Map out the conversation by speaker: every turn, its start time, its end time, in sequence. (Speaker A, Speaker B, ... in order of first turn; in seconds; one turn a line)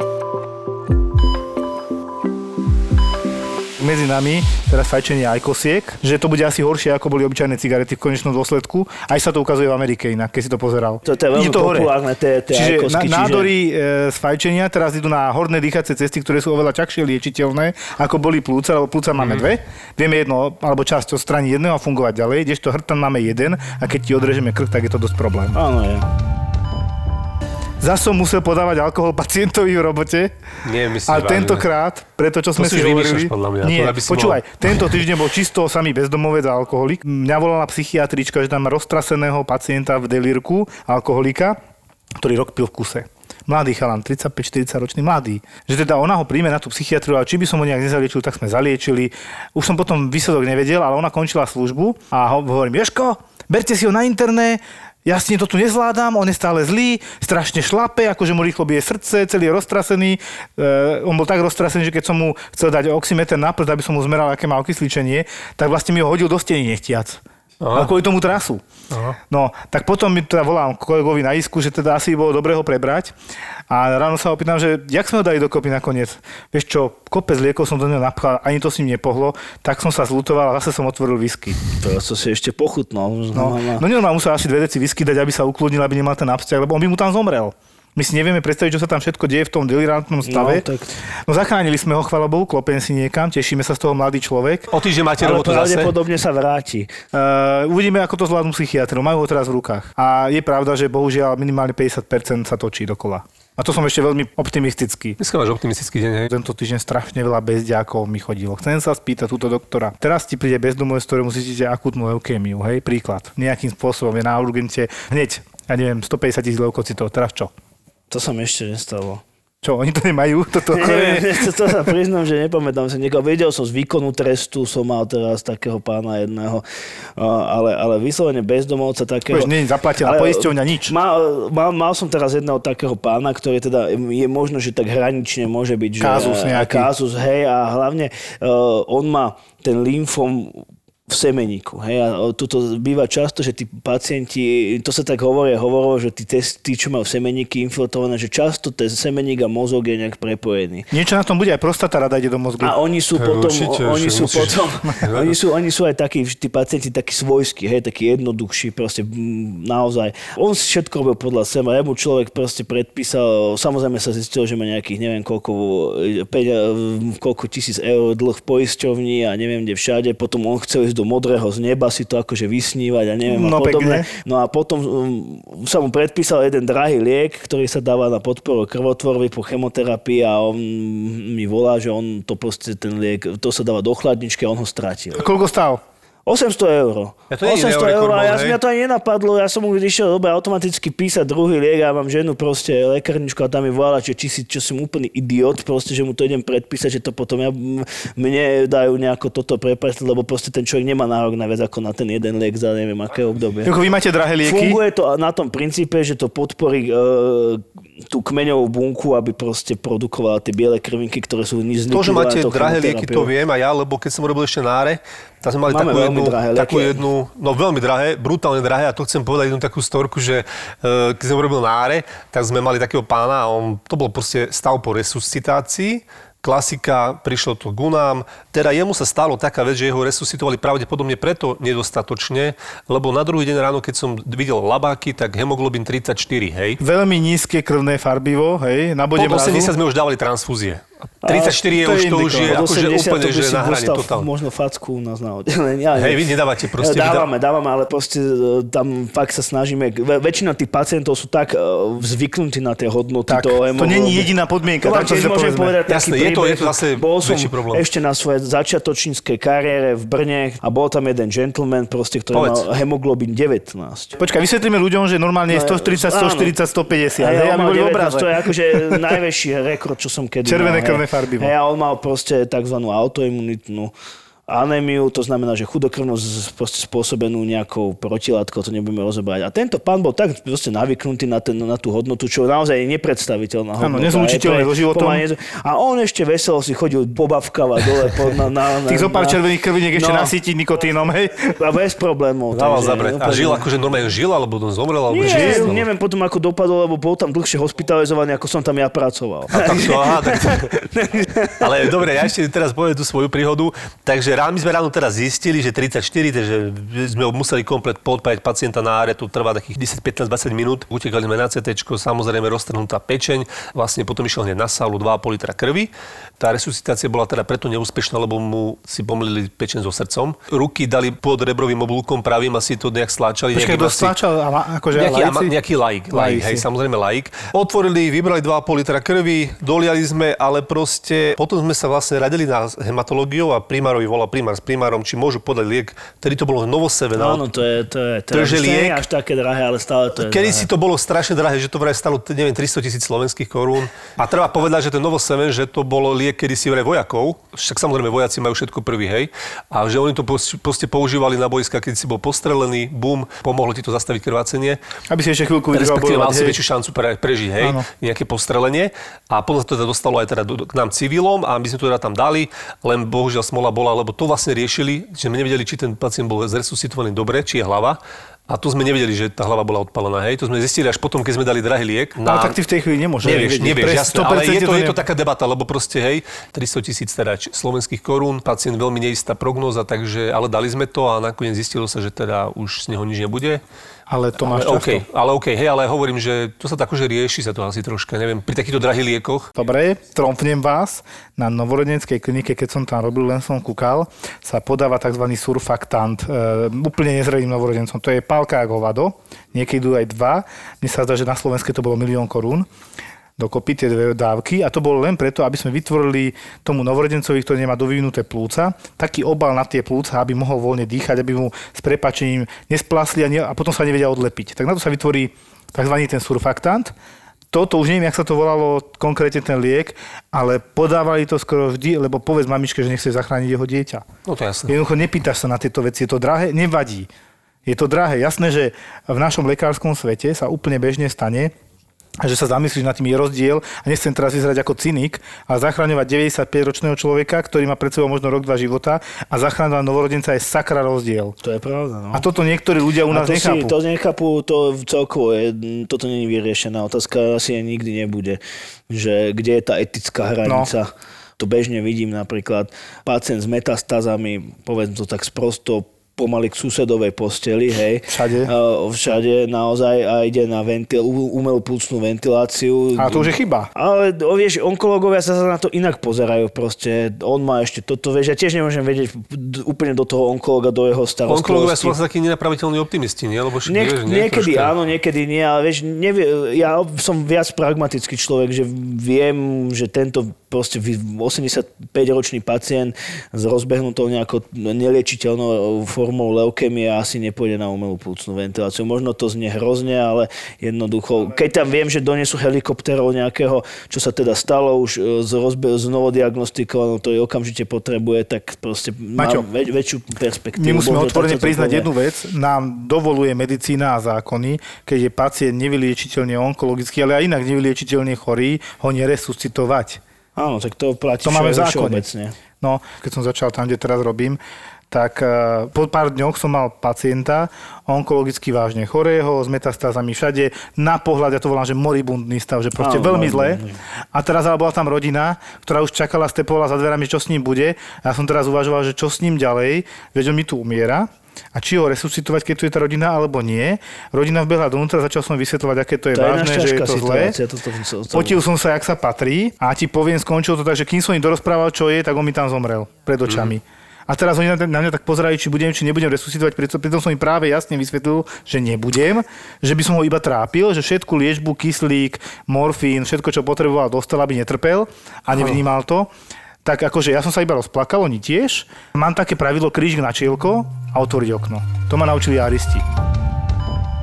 Speaker A: 3.8-11.9
Speaker B: 11.1-13.5
Speaker A: 12.5-25.6
Speaker C: 19.2-19.4
Speaker B: 25.5-26.1
Speaker A: 27.8-30.4
Speaker C: 30.6-31.7
Speaker A: 31.1-41.6
Speaker C: 32.6-35.0
Speaker A: 42.2-67.2
Speaker C: 67.6-68.0
Speaker A: 67.7-68.6
Speaker C: 68.9-69.2
Speaker A: 69.3-73.1
Speaker A: 73.7-81.6
Speaker B: 81.8-83.8
Speaker A: 83.3-90.7
Speaker B: 90.2-90.9
Speaker A: 91.2-94.7
Speaker C: 94.7-95.9
Speaker B: 95.2-96.9
Speaker A: 97.1-105.2
Speaker C: 105.2-106.3
Speaker A: 106.3-117.5
Speaker B: 118.1-119.2
Speaker A: 119.6-121.9
Speaker B: 120.7-126.6
Speaker B: 127.2-150.9
Speaker A: 129.3-130.9
Speaker A: 136.0-136.9
Speaker A: 150.9-152.8
Speaker B: 152.6-185.2
Speaker C: 153.2-155.3
Speaker A: 173.2-174.1
Speaker A: 185.2-185.8
Speaker B: 186.3-203.7
Speaker C: 187.3-188.6
Speaker A: 203.6-204.8
Speaker B: 204.4-213.3
Speaker C: 211.9-236.8
Speaker B: 215.7-217.0
Speaker A: 236.8-239.7
Speaker C: 239.2-244.3
Speaker A: 241.3-242.6
Speaker B: 242.2-246.3
Speaker C: 246.0-247.3
Speaker B: 246.8-264.2
Speaker A: 253.3-255.8
Speaker C: 255.9-257.8
Speaker C: 262.3-262.7
Speaker A: 264.2-269.2
Speaker B: 265.5-266.5
Speaker B: 267.2-273.9
Speaker A: 270.5-271.5
Speaker B: 274.5-289.4
Speaker A: 283.8-285.2
Speaker A: 288.9-291.5
Speaker B: 289.9-290.3
Speaker B: 291.6-293.7
Speaker C: 292.5-295.9
Speaker B: 295.1-301.9
Speaker A: 295.2-295.7
Speaker C: 299.5-300.7
Speaker C: 301.6-324.1
Speaker A: 323.5-325.6
Speaker C: 324.9-337.4
Speaker A: 326.1-326.7
Speaker B: 337.2-340.7
Speaker C: 338.3-339.0
Speaker C: 340.2-354.8
Speaker A: 355.1-356.6
Speaker C: 355.7-372.6
Speaker A: 357.6-357.9
Speaker A: 372.2-375.0
Speaker C: 373.2-383.6
Speaker A: 384.1-385.1
Speaker C: 384.4-389.5
Speaker A: 389.6-402.7
Speaker A: 403.4-416.9
Speaker A: 417.5-424.1
Speaker C: 424.3-424.8
Speaker A: 424.7-427.1
Speaker A: 427.7-431.5
Speaker A: 432.2-441.4
Speaker B: 441.4-442.3
Speaker A: 442.1-443.8
Speaker B: 443.1-472.0
Speaker A: 450.4-450.7
Speaker A: 458.1-458.5
Speaker A: 463.0-463.7
Speaker C: 471.3-474.7
Speaker B: 473.7-501.9
Speaker A: 499.2-499.5
Speaker A: 500.6-510.0
Speaker B: 510.4-512.4
Speaker A: 511.2-512.1
Speaker A: 512.6-514.4
Speaker A: 514.9-523.6
Speaker B: 522.8-523.8
Speaker A: 524.1-537.4
Speaker B: 536.1-538.4
Speaker A: 538.1-556.1
Speaker A: 556.6-562.8